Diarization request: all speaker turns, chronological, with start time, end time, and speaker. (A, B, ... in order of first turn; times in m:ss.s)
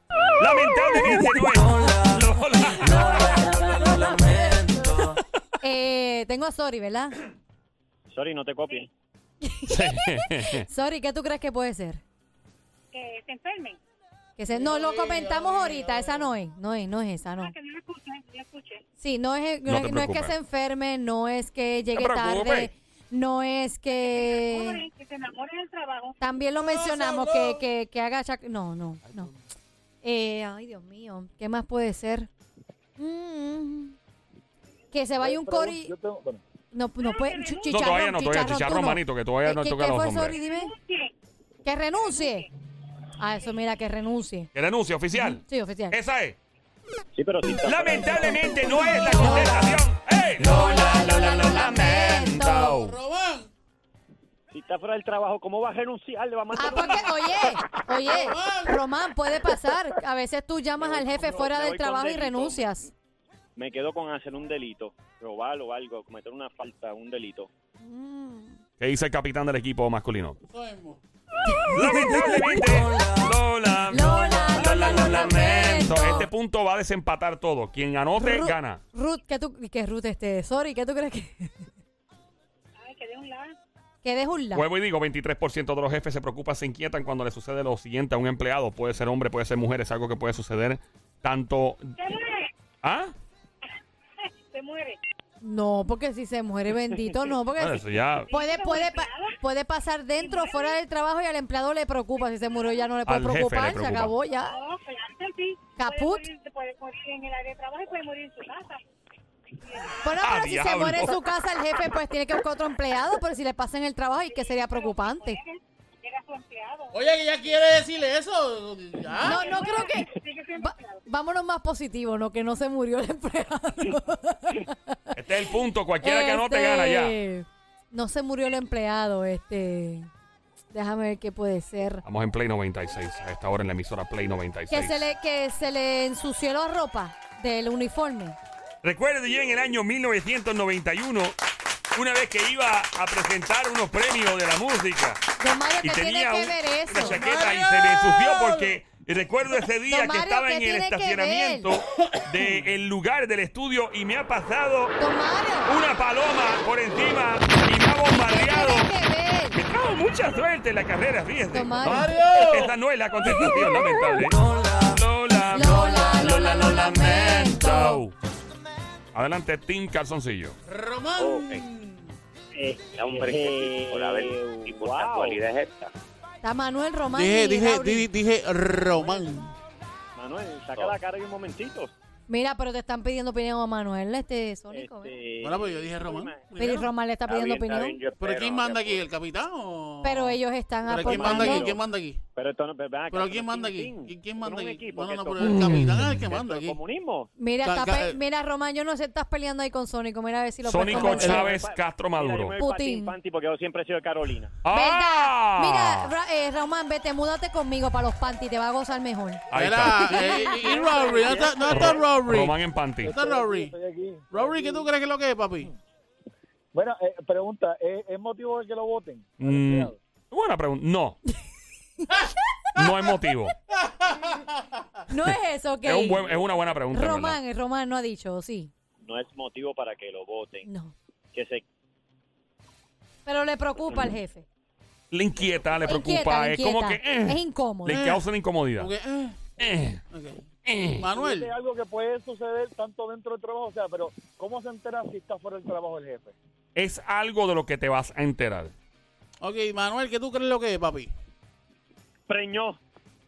0:00.4-0:03.6 A
0:02.8-0:07.2 B
0:08.1-0:08.9 C
0:09.4-0:12.0 B
0:09.7-0:10.6 A
0:12.9-0:13.8 D
0:14.4-0:17.5 B
0:14.5-0:16.3 E
0:17.4-0:18.8 D
0:19.0-0:24.8 B
0:19.7-0:20.3 A
0:21.9-0:22.7 A
0:24.0-0:26.2 D
0:26.2-0:29.3 B
0:26.6-0:27.6 E
0:30.0-0:32.3 B
0:33.0-0:34.0 B
0:34.9-0:35.9 B
0:35.2-0:36.4 F
0:36.7-0:40.7 B
0:37.0-0:37.9 D
0:37.7-0:40.4 A
0:40.4-0:41.1 D
0:41.6-0:42.5 B
0:42.1-0:42.4 D
0:43.2-0:44.5 B
0:44.5-0:46.4 A
0:45.1-0:46.0 B
0:47.1-0:48.4 C
0:47.6-0:53.0 A
0:48.5-0:49.8 B
0:50.4-0:52.8 B
0:52.6-0:53.5 E
0:54.5-0:57.1 C
0:56.5-1:02.9 B
0:58.0-0:58.8 E
1:00.8-1:02.8 C
1:03.6-1:07.5 C
1:07.8-1:08.6 B
1:08.8-1:10.4 A
1:10.5-1:11.0 E
1:11.4-1:12.7 B
1:11.7-1:18.8 A
1:13.9-1:16.3 B
1:18.2-1:21.6 B
1:22.8-1:23.6 D
1:24.0-1:24.6 B
1:24.5-1:31.9 A
1:32.0-1:32.5 D
1:32.8-1:33.1 A
1:34.5-1:35.0 D
1:35.4-1:44.6 B
1:37.6-1:38.3 A
1:38.2-1:39.4 D
1:40.2-1:40.8 D
1:43.0-1:44.1 A
1:44.4-1:48.8 D
1:45.8-1:46.2 B
1:49.6-1:50.0 D
1:50.0-1:55.4 B
1:50.2-1:51.2 A
1:54.3-1:57.0 D
1:56.9-1:59.5 E
1:59.1-2:01.0 D
1:59.2-2:05.2 B
2:05.1-2:07.2 A
2:06.0-2:10.1 B
2:10.7-2:12.0 B
2:12.0-2:15.0 A
2:14.7-2:18.4 B
2:18.8-2:21.4 A
2:21.9-2:25.2 A
2:25.4-2:27.2 B
2:25.8-2:35.0 A
2:27.0-2:28.8 E
2:29.9-2:31.7 B
2:32.1-2:32.4 E
2:35.0-2:35.8 B
2:35.6-2:38.9 A
2:38.1-2:39.6 B
2:39.5-2:48.1 A
2:41.5-2:42.2 B
2:41.8-2:42.8 E
2:45.5-2:48.0 B
2:49.1-2:50.6 A
2:50.6-2:52.1 E
2:51.2-2:51.6 G
2:52.5-2:55.4 C
2:52.9-2:55.9 G
2:56.4-2:58.1 B
2:57.1-2:59.5 E
3:00.2-3:01.9 C
3:02.3-3:05.2 B
3:04.7-3:06.5 C
3:05.4-3:06.9 E
3:06.6-3:08.0 B
3:07.2-3:09.1 G
3:08.2-3:12.2 E
3:10.0-3:11.7 B
3:11.0-3:11.8 C
3:12.4-3:17.3 C
3:13.1-3:16.8 E
3:17.4-3:21.5 B
3:17.6-3:18.2 E
3:20.6-3:22.6 A
3:20.8-3:24.6 C
3:22.6-3:23.1 B
3:24.6-3:26.1 A
3:24.7-3:29.5 B
3:29.5-3:30.2 A
3:29.5-3:33.7 E
3:30.0-3:30.8 B
3:30.5-3:32.0 C
3:31.7-3:33.1 A
3:33.0-3:34.9 F
3:34.3-3:35.7 E
3:36.7-3:40.0 F
3:39.4-3:41.2 A
3:42.0-3:42.2 B
3:42.8-3:43.5 A
3:43.7-3:44.9 E
3:45.1-3:46.2 B
3:45.2-3:47.4 A
3:46.9-3:48.7 B
3:49.0-3:50.7 C
3:50.6-3:50.9 B
3:51.3-3:51.6 C
3:53.2-3:54.5 B
3:55.1-3:58.9 A
3:55.8-3:58.0 B
3:57.9-3:58.2 E
3:58.8-3:59.4 E
3:59.6-4:00.0 A
4:00.1-4:01.5 E
4:00.6-4:01.1 A
4:01.1-4:06.3 F
4:06.8-4:08.7 A
4:09.4-4:11.1 E
4:12.3-4:12.8 C